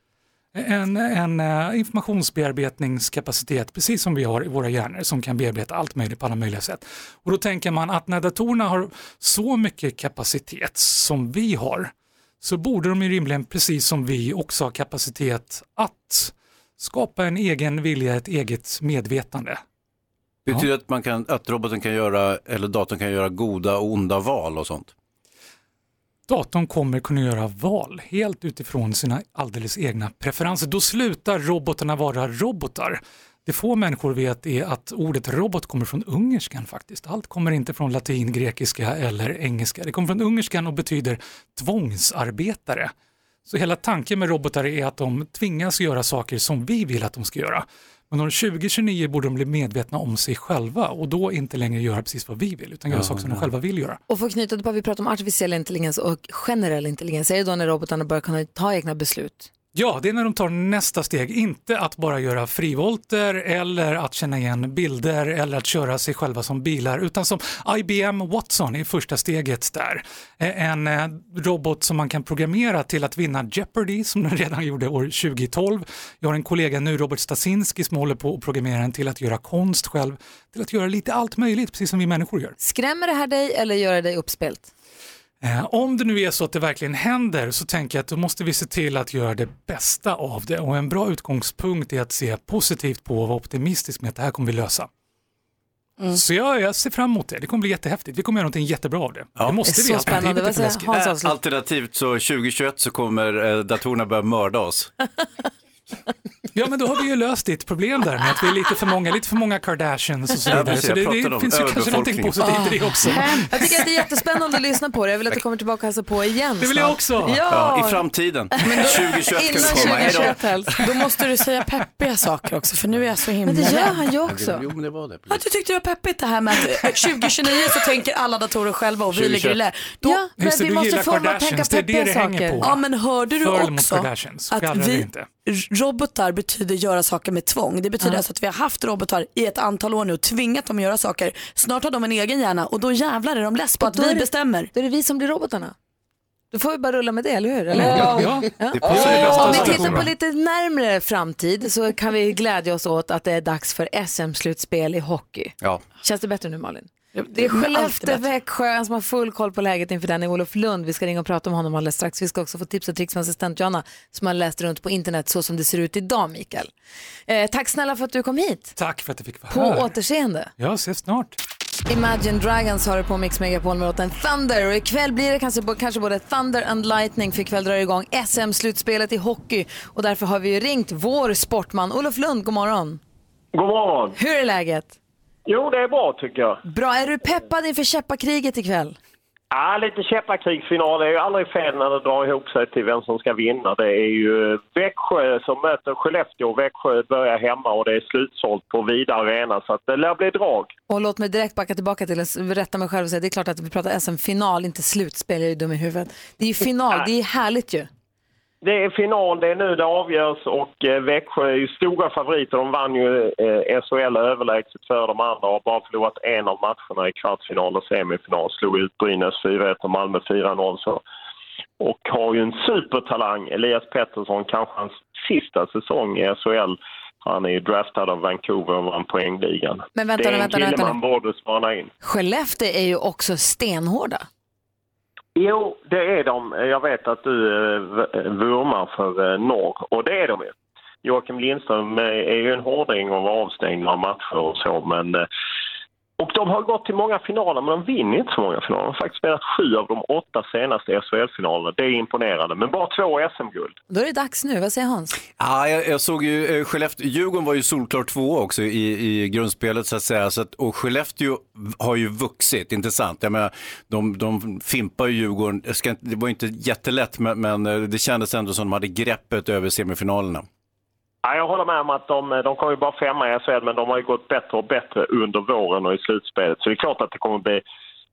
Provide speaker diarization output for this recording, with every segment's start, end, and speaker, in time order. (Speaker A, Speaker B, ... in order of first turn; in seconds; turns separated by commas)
Speaker A: 0.5-19.6, Speaker B: 20.4-24.9, Speaker A: 26.3-42.9, Speaker A: 43.5-54.0, Speaker B: 52.9-53.5, Speaker C: 54.1-59.5, Speaker A: 59.7-82.5, Speaker C: 82.6-84.7, Speaker A: 85.4-94.9, Speaker A: 96.1-100.9, Speaker C: 99.6-101.3, Speaker B: 100.9-104.9, Speaker A: 106.5-113.5, Speaker B: 110.5-113.1, Speaker D: 112.4-113.3, Speaker C: 113.1-120.8, Speaker A: 116.6-117.5, Speaker B: 117.5-120.4, Speaker D: 118.7-119.0, Speaker D: 119.5-124.0, Speaker C: 123.4-124.6, Speaker B: 124.2-125.4, Speaker D: 125.3-130.2, Speaker B: 129.1-129.6, Speaker C: 130.0-132.7, Speaker A: 130.3-135.3, Speaker D: 132.6-144.7, Speaker C: 143.8-145.7, Speaker C: 146.5-166.7, Speaker A: 147.7-150.1, Speaker B: 147.8-150.1, Speaker D: 157.1-158.2, Speaker C: 167.3-168.7, Speaker A: 168.8-169.9, Speaker C: 169.5-170.5, Speaker A: 170.6-171.4, Speaker C: 171.9-183.0, Speaker E: 183.5-184.2, Speaker C: 184.2-184.9, Speaker E: 185.4-186.6, Speaker C: 186.7-189.0, Speaker E: 189.5-200.7, Speaker C: 200.9-207.9, Speaker E: 208.6-221.0, Speaker E: 221.8-231.9, Speaker C: 229.9-231.0, Speaker C: 232.0-234.2, Speaker E: 235.3-245.2, Speaker E: 246.2-253.8, Speaker C: 253.9-255.2, Speaker B: 255.4-270.4, Speaker E: 271.2-277.6